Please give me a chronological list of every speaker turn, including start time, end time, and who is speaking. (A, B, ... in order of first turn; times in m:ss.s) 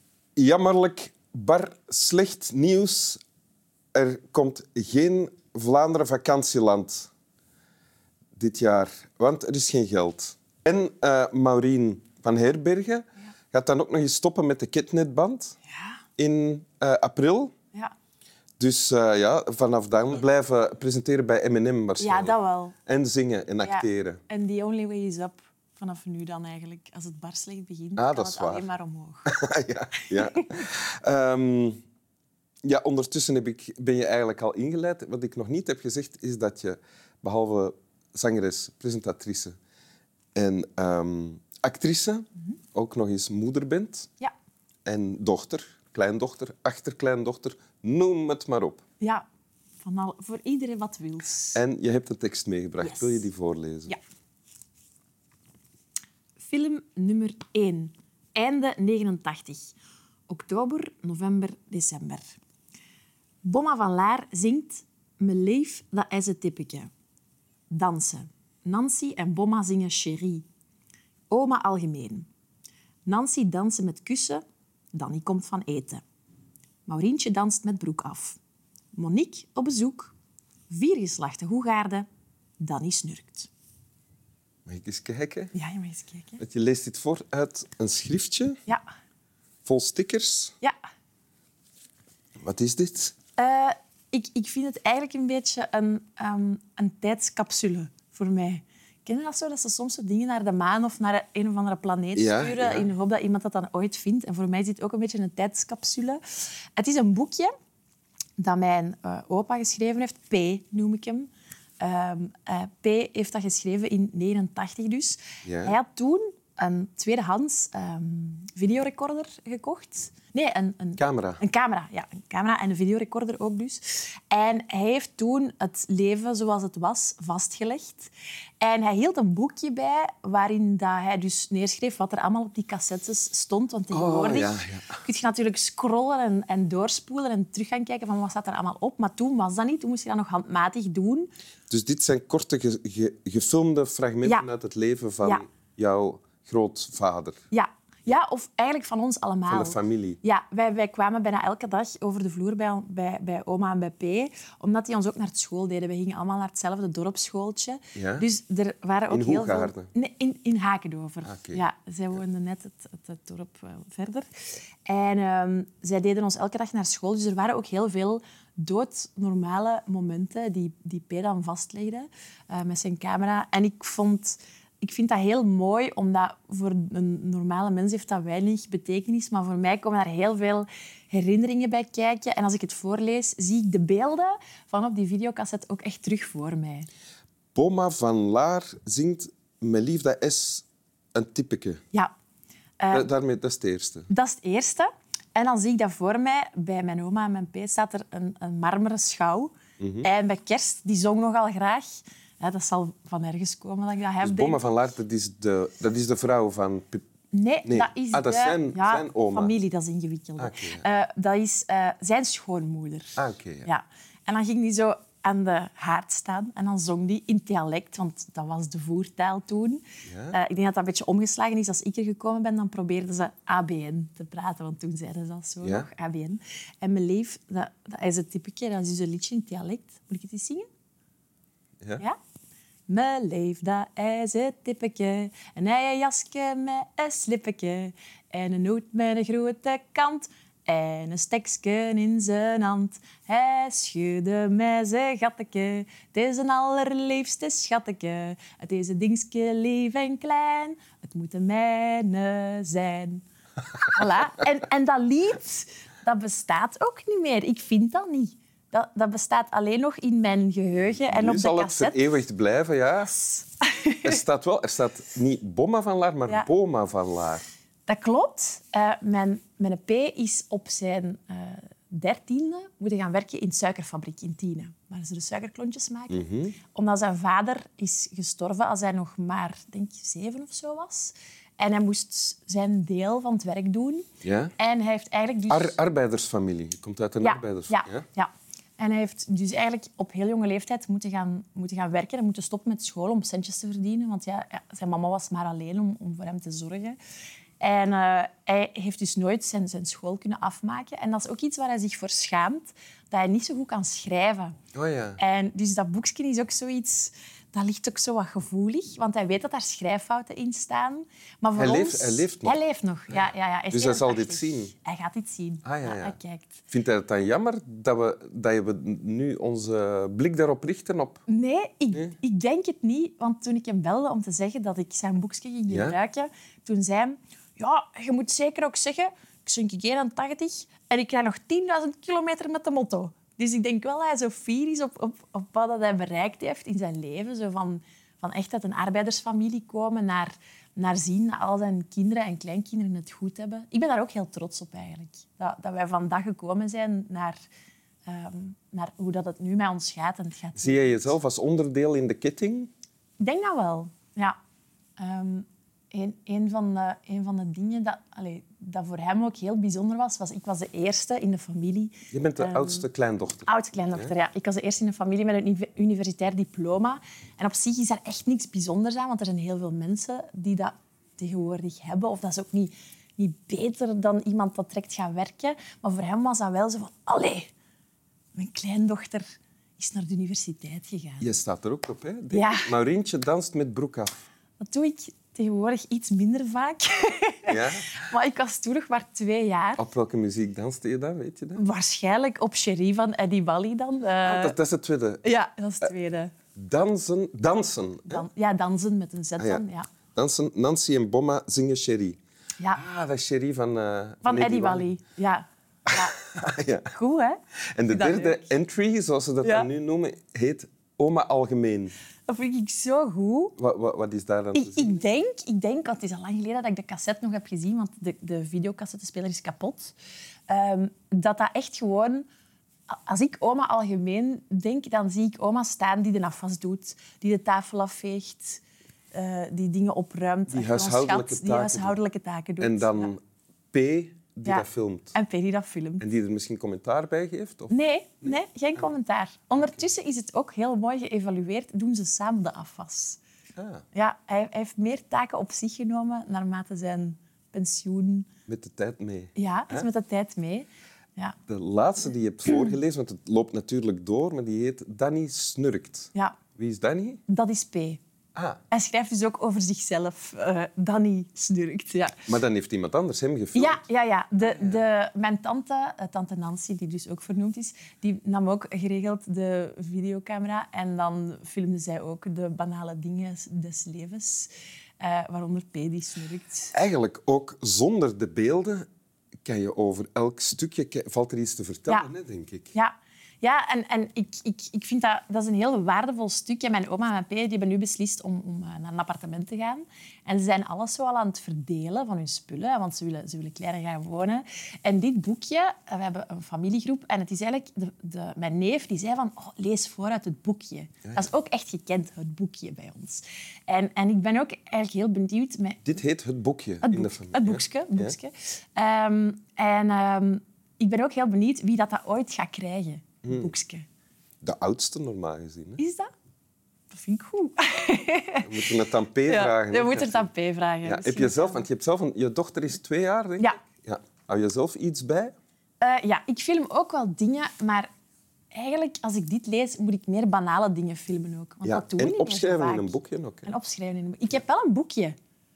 0:00.4-0:03.2 A
0:03.9-0:07.1 A
0:08.3-0:15.6 A
0:15.7-0:16.0 B
0:16.2-0:17.5 A
0:18.6-0:24.2 A
0:22.0-0:22.8 B
0:23.6-0:29.3 B
0:28.0-0:28.6 A
0:29.2-0:31.8 A
0:30.0-0:30.5 B
0:32.6-0:39.6 A
0:40.3-0:44.1 A
0:44.8-0:48.8 A
0:49.0-0:49.2 B
0:49.8-0:51.6 B
0:51.5-0:54.0 A
0:52.8-0:53.2 B
0:56.4-0:59.7 B
1:00.3-1:02.4 B
1:03.4-1:06.9 B
1:07.7-1:10.4 B
1:11.3-1:12.3 B
1:13.0-1:14.4 B
1:14.9-1:16.0 B
1:16.8-1:18.4 B
1:18.9-1:20.1 B
1:20.7-1:22.0 B
1:22.6-1:23.5 B
1:24.6-1:25.5 A
1:25.5-1:26.4 B
1:26.4-1:28.6 A
1:29.6-1:30.5 A
1:32.4-1:33.1 A
1:33.4-1:46.2 B
1:42.1-1:42.9 A
1:46.8-1:47.5 B
1:48.4-1:51.3 B
1:51.8-2:21.3 B
1:55.4-1:55.8 A
2:01.0-2:01.4 A
2:13.9-2:15.0 A
2:21.7-2:27.4 A
2:27.5-2:44.3 B
2:29.5-2:30.2 A
2:37.9-2:38.3 A
2:39.1-2:39.9 A
2:41.2-2:41.6 A
2:44.8-3:06.9 B
3:07.5-3:11.8 A
3:12.8-3:13.1 B
3:12.9-3:14.1 A
3:14.1-3:24.6 B
3:19.8-3:20.1 A
3:24.2-3:27.0 A
3:27.3-3:50.7 B
3:27.6-3:29.5 A
3:30.4-3:30.8 A
3:33.2-3:33.7 A
3:40.0-3:40.4 A
3:45.6-3:45.9 A
3:52.9-4:13.2 B
4:13.8-4:22.0 B
4:21.0-4:23.2 A
4:23.3-4:24.1 B
4:24.0-4:27.4 A
4:27.8-4:45.8 B
4:36.1-4:36.6 A
4:44.2-4:44.5 A
4:45.5-4:48.0 A
4:47.2-4:57.0 B
4:57.6-5:04.6 B
5:04.7-5:05.2 A
5:05.2-5:16.6 B
5:11.6-5:12.6 A
5:13.7-5:14.7 A
5:15.6-5:16.1 A
5:16.7-5:21.2 A
5:21.3-5:47.4 B
5:25.7-5:26.0 A
5:48.0-5:51.1 B
5:50.6-5:52.7 A
5:53.2-5:54.4 B
5:55.0-6:02.8 B
6:02.1-6:04.1 A
6:03.4-6:17.5 B
6:18.3-6:21.3 B
6:21.2-6:24.2 A
6:22.3-6:22.7 B
6:24.6-6:29.8 B
6:27.4-6:28.1 A
6:29.8-6:31.6 A
6:31.5-6:34.5 B
6:34.2-6:35.2 A
6:35.2-6:36.3 B
6:36.5-6:38.2 A
6:38.1-6:39.9 B
6:39.4-6:39.6 A
6:40.1-6:42.2 A
6:42.6-6:42.8 B
6:42.7-6:44.9 A
6:44.2-6:46.2 B
6:45.9-6:46.9 A
6:46.9-6:48.5 B
6:47.7-6:51.9 A
6:49.4-6:49.7 B
6:52.3-6:53.5 B
6:53.6-6:55.0 A
6:54.5-6:59.9 B
7:00.5-7:02.2 B
7:02.9-7:08.6 B
7:09.1-7:13.1 B
7:10.5-7:12.0 A
7:12.6-7:13.2 A
7:13.7-7:15.1 A
7:14.4-7:16.0 B
7:16.0-7:17.7 A
7:17.7-7:23.2 B
7:23.6-7:23.8 A
7:23.9-7:28.3 B
7:28.5-7:29.8 A
7:29.3-7:31.4 B
7:31.5-7:37.2 A
7:36.1-7:36.4 B
7:37.3-7:38.0 B
7:38.3-7:38.6 A
7:38.7-7:42.3 B
7:42.3-7:43.8 A
7:43.5-7:56.7 B
7:44.4-7:44.8 A
7:56.7-7:58.9 A
7:59.4-8:02.7 A
8:02.7-8:25.9 B
8:25.8-8:28.2 A
8:26.8-8:33.8 B
8:33.2-8:33.5 A
8:34.4-8:35.8 A
8:35.8-8:36.1 B
8:36.9-8:38.6 B
8:38.4-8:40.3 A
8:39.3-8:41.7 B
8:40.8-8:45.3 A
8:45.8-8:47.9 B
8:48.5-8:55.2 B
8:51.6-8:53.5 A